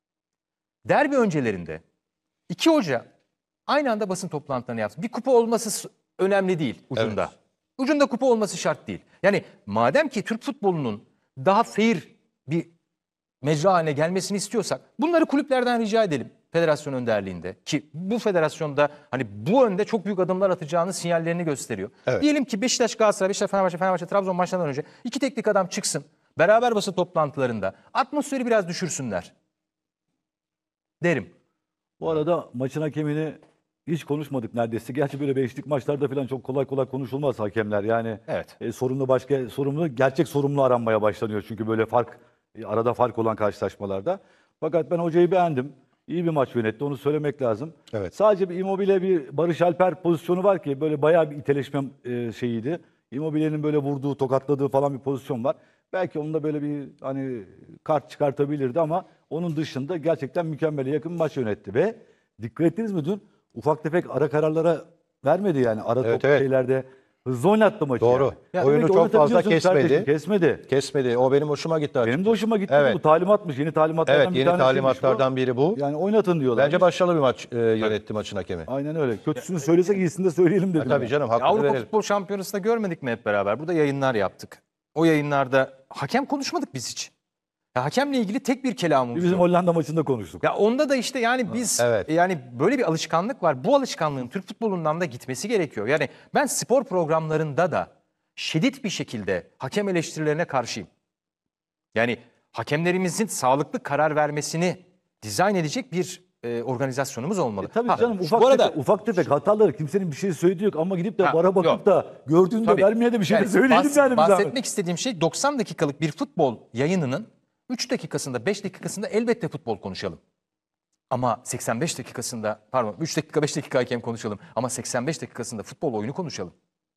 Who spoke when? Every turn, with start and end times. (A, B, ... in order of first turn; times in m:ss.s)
0:00.9-0:01.8 A
0:02.5-0:03.0 A
0:03.7-0:12.7 A
0:13.4-0:29.3 A
0:31.0-0:31.3 A
0:32.0-1:10.7 B
0:38.3-0:38.5 A
1:06.0-1:06.4 C
1:08.0-1:10.1 C
1:10.7-1:13.0 C
1:12.0-1:16.8 B
1:14.1-1:15.8 C
1:16.6-1:18.7 C
1:18.7-1:21.1 B
1:20.8-1:21.9 C
1:21.4-1:27.1 A
1:27.7-1:29.4 A
1:29.1-1:30.4 B
1:30.4-1:40.9 A
1:31.8-1:32.1 C
1:42.0-1:48.8 A
1:47.6-1:54.5 B
1:51.2-1:51.8 A
1:52.6-2:00.2 A
2:01.1-2:06.5 A